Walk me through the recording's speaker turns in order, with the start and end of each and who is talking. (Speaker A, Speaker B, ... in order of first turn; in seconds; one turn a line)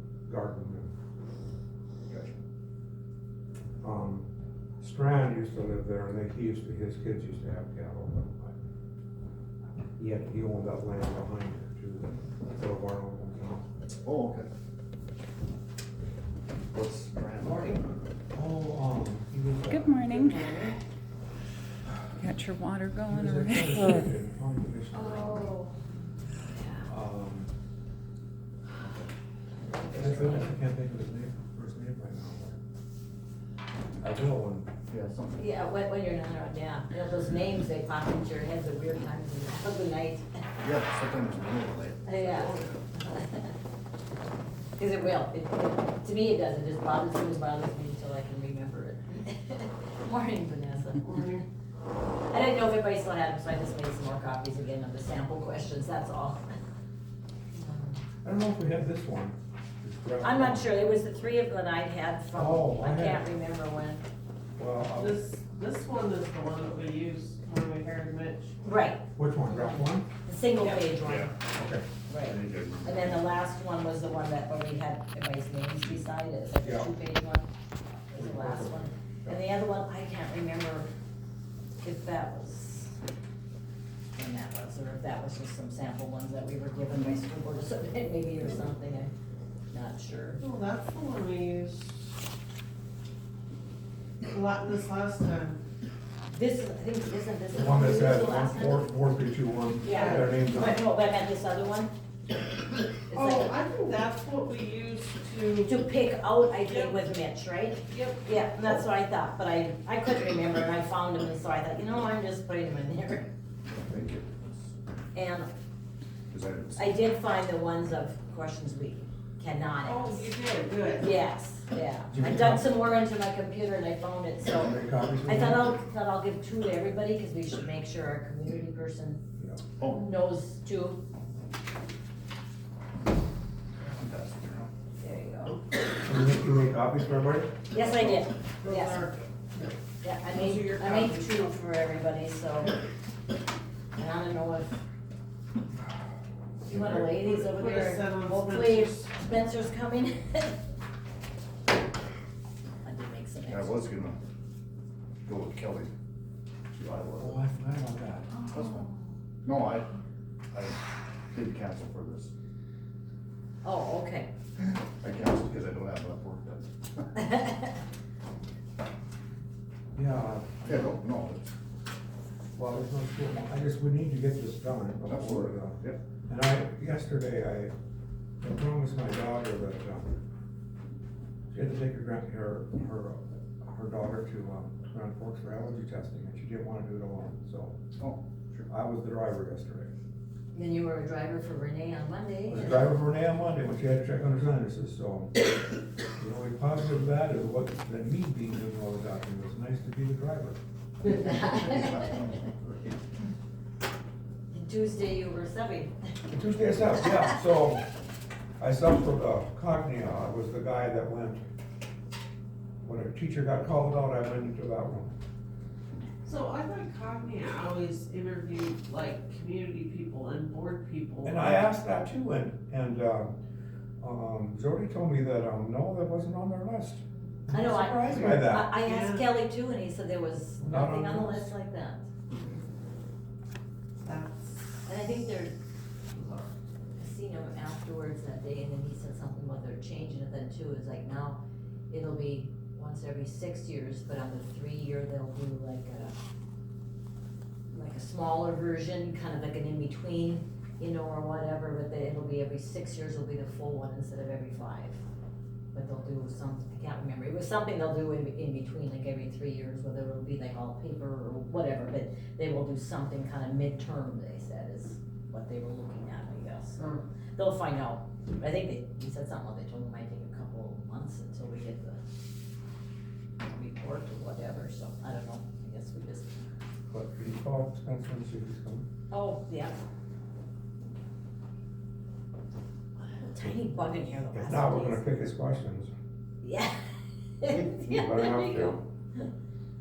Speaker A: 0.3-0.9
Speaker A: 3.8-4.3
Speaker A: 4.8-8.6
Speaker A: 10.0-13.6
Speaker B: 14.1-14.5
Speaker B: 16.7-17.8
Speaker A: 18.3-20.1
Speaker C: 19.7-20.5
Speaker D: 20.1-20.7
Speaker C: 22.2-24.1
Speaker A: 23.1-25.6
Speaker E: 24.9-26.9
Speaker A: 26.9-27.5
Speaker B: 28.8-29.1
Speaker E: 29.6-30.5
Speaker A: 29.9-32.6
Speaker A: 34.0-34.7
Speaker B: 34.9-35.4
Speaker E: 35.4-40.4
Speaker B: 40.6-42.8
Speaker E: 42.1-43.6
Speaker E: 44.8-51.2
Speaker D: 51.0-51.4
Speaker E: 52.3-56.4
Speaker E: 57.5-58.0
Speaker A: 58.2-60.7
Speaker E: 60.2-64.0
Speaker A: 62.3-63.2
Speaker A: 64.6-65.2
Speaker D: 64.9-68.6
Speaker E: 68.6-71.3
Speaker A: 69.2-70.1
Speaker B: 70.6-71.3
Speaker A: 71.5-71.8
Speaker E: 72.1-77.5
Speaker B: 72.2-73.2
Speaker A: 76.6-76.9
Speaker E: 78.1-80.9
Speaker A: 78.2-79.4
Speaker E: 81.8-83.0
Speaker E: 84.2-89.1
Speaker E: 89.7-90.4
Speaker D: 90.4-92.1
Speaker D: 94.3-95.6
Speaker E: 96.3-98.9
Speaker A: 97.5-100.8
Speaker E: 99.8-101.9
Speaker D: 99.9-100.3
Speaker E: 103.1-103.6
Speaker D: 103.1-105.8
Speaker E: 105.7-113.3
Speaker D: 106.7-107.0
Speaker D: 107.9-108.2
Speaker B: 113.7-114.5
Speaker E: 115.1-115.5
Speaker B: 116.3-117.0
Speaker E: 116.8-120.3
Speaker D: 119.8-121.1
Speaker E: 121.0-129.2
Speaker A: 122.1-122.7
Speaker A: 124.5-125.7
Speaker A: 129.4-129.6
Speaker B: 129.8-130.1
Speaker E: 129.9-131.0
Speaker B: 133.8-134.7
Speaker E: 135.0-135.6
Speaker A: 136.0-137.5
Speaker E: 137.7-139.1
Speaker D: 137.8-139.7
Speaker E: 140.0-142.8
Speaker D: 140.3-141.5
Speaker E: 144.0-144.8
Speaker E: 146.7-150.6
Speaker D: 146.9-149.1
Speaker E: 152.8-153.8
Speaker B: 153.5-154.2
Speaker B: 155.2-155.9
Speaker B: 156.8-157.4
Speaker A: 157.2-158.3
Speaker E: 158.3-159.1
Speaker B: 158.5-158.9
Speaker B: 159.4-159.9
Speaker B: 160.5-160.8
Speaker B: 161.3-162.3
Speaker E: 163.6-164.3
Speaker B: 164.6-167.1
Speaker E: 167.2-167.6
Speaker A: 169.9-171.0
Speaker B: 170.7-171.4
Speaker A: 172.6-177.7
Speaker B: 175.1-176.0
Speaker A: 178.4-180.2
Speaker A: 181.5-187.8
Speaker B: 188.0-188.7
Speaker A: 188.7-189.9
Speaker E: 190.5-192.9
Speaker A: 192.5-195.3
Speaker A: 196.2-200.6
Speaker E: 201.0-202.2
Speaker B: 201.3-202.7
Speaker E: 204.5-205.9
Speaker A: 206.3-207.9
Speaker E: 207.0-207.3
Speaker A: 208.6-211.4
Speaker A: 212.8-215.2
Speaker D: 216.2-221.6
Speaker A: 221.2-223.4
Speaker A: 224.0-228.7
Speaker E: 227.5-232.1
Speaker D: 228.8-229.2
Speaker A: 230.6-231.5
Speaker D: 234.0-234.7
Speaker E: 234.9-235.6
Speaker E: 236.1-246.2
Speaker E: 247.7-255.0
Speaker E: 255.7-266.8
Speaker D: 266.8-267.0
Speaker E: 267.4-272.0
Speaker E: 273.4-276.5
Speaker A: 276.9-278.9
Speaker E: 279.1-279.8
Speaker E: 283.0-285.0
Speaker A: 284.3-285.9
Speaker E: 286.4-286.8
Speaker E: 287.4-289.3
Speaker A: 287.6-288.8